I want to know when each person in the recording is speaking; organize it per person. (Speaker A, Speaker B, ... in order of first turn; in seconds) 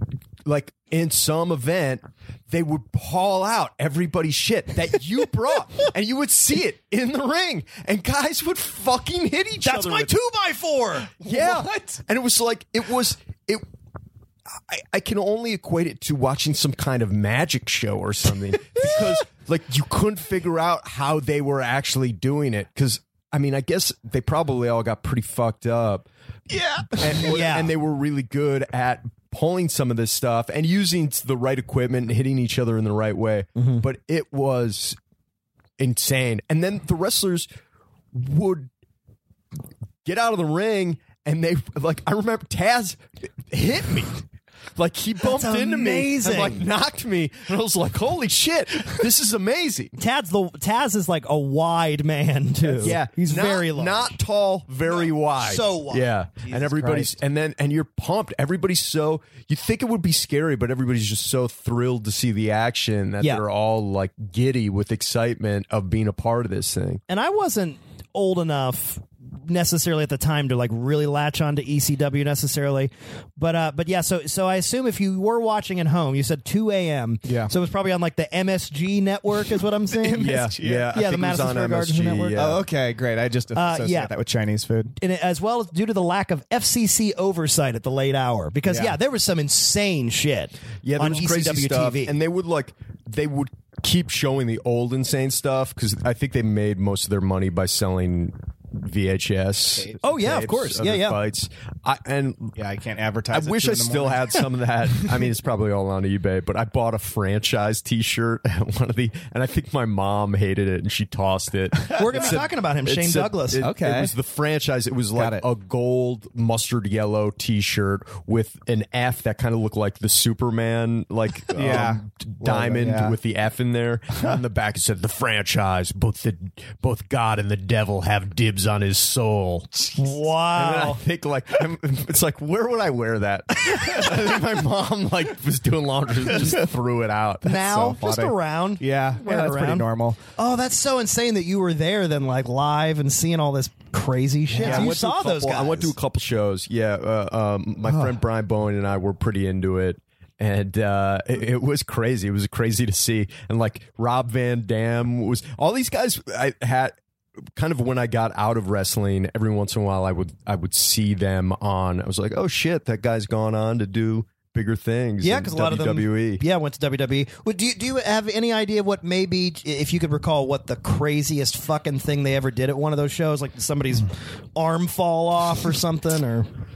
Speaker A: 0.5-10.1, 11.2-13.7, 14.7-26.1, 26.9-35.0, 35.8-37.5, 38.1-38.7, 40.0-44.2, 44.8-50.0, 52.7-67.0, 80.2-82.6, 90.8-102.6, 103.3-137.7, 144.6-157.0, 157.5-166.4
Speaker B: 9.6-11.1, 27.2-27.7, 33.6-33.8, 45.2-46.6, 50.0-54.2, 54.9-57.0, 67.1-82.4, 83.5-84.1, 85.0-92.1, 100.0-101.2, 111.9-113.6, 130.0-131.0, 137.5-145.9, 165.2-176.5
Speaker C: 11.2-12.0, 26.5-27.3, 77.2-77.5, 79.9-80.9, 82.4-85.0, 88.7-89.0, 102.6-105.1, 113.6-114.1, 115.2-115.5, 121.5-123.2, 133.7-134.1, 136.3-136.7, 137.5-140.2, 144.6-144.9, 147.9-148.2